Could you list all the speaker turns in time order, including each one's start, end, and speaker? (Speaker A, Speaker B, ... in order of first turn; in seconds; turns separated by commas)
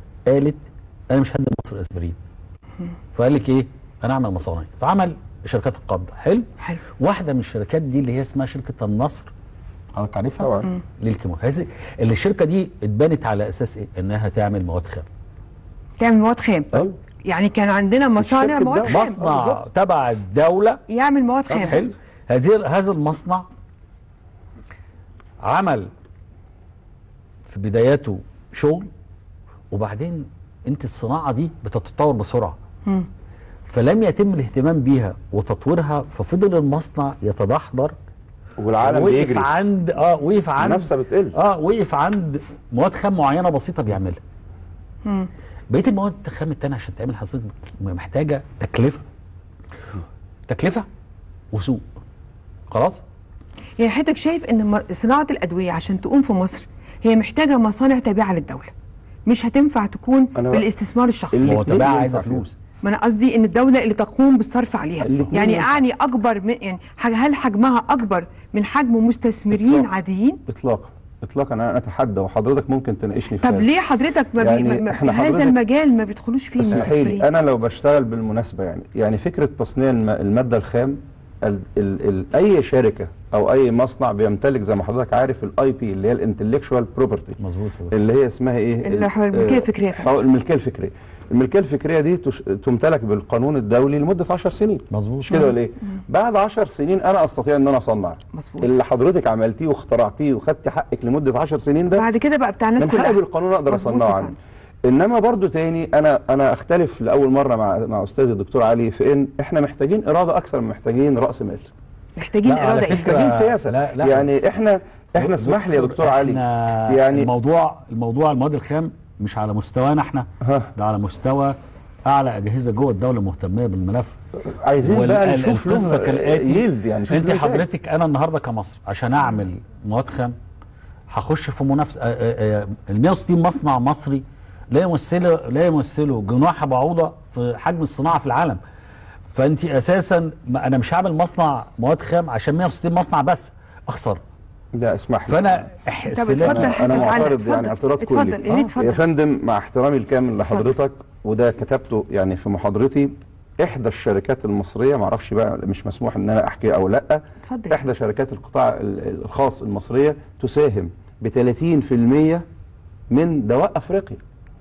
Speaker A: 0.3-2.2, Speaker A: 3.1-6.5, Speaker A: 7.0-9.3, Speaker A: 9.9-15.1, Speaker B: 10.4-10.7, Speaker C: 16.0-16.7, Speaker A: 16.7-17.0, Speaker C: 17.2-19.2, Speaker B: 18.2-19.6, Speaker A: 18.9-20.8, Speaker C: 20.9-21.9, Speaker A: 21.5-23.5, Speaker B: 21.6-21.9, Speaker A: 25.4-25.9, Speaker A: 27.5-28.9, Speaker A: 29.7-32.6, Speaker A: 33.7-38.0, Speaker B: 38.6-39.5, Speaker A: 38.8-44.2, Speaker B: 40.6-41.4, Speaker A: 45.7-49.0, Speaker A: 50.5-50.9, Speaker A: 51.5-51.8, Speaker A: 52.7-53.0, Speaker C: 53.8-58.7, Speaker C: 59.3-61.5, Speaker B: 60.4-60.7, Speaker B: 61.3-62.5, Speaker A: 61.4-62.5, Speaker C: 62.8-70.4, Speaker B: 65.0-65.8, Speaker B: 69.5-69.8, Speaker B: 70.5-73.7, Speaker C: 73.4-77.3, Speaker B: 74.4-75.6, Speaker B: 76.6-87.4, Speaker A: 87.4-88.0, Speaker B: 87.9-102.0, Speaker C: 88.8-90.1, Speaker A: 94.9-95.5, Speaker C: 98.3-98.7, Speaker C: 102.0-104.3, Speaker B: 102.8-104.3, Speaker B: 104.9-111.7, Speaker C: 112.2-113.2, Speaker A: 112.4-114.3, Speaker B: 112.9-117.3, Speaker A: 115.2-124.2, Speaker B: 120.4-120.7, Speaker B: 124.5-127.6, Speaker A: 124.8-130.4, Speaker A: 131.1-138.6, Speaker A: 139.3-144.2, Speaker B: 144.8-145.6, Speaker A: 145.3-147.3, Speaker C: 146.2-149.0, Speaker B: 146.4-162.4, Speaker C: 157.4-157.8, Speaker B: 163.1-164.2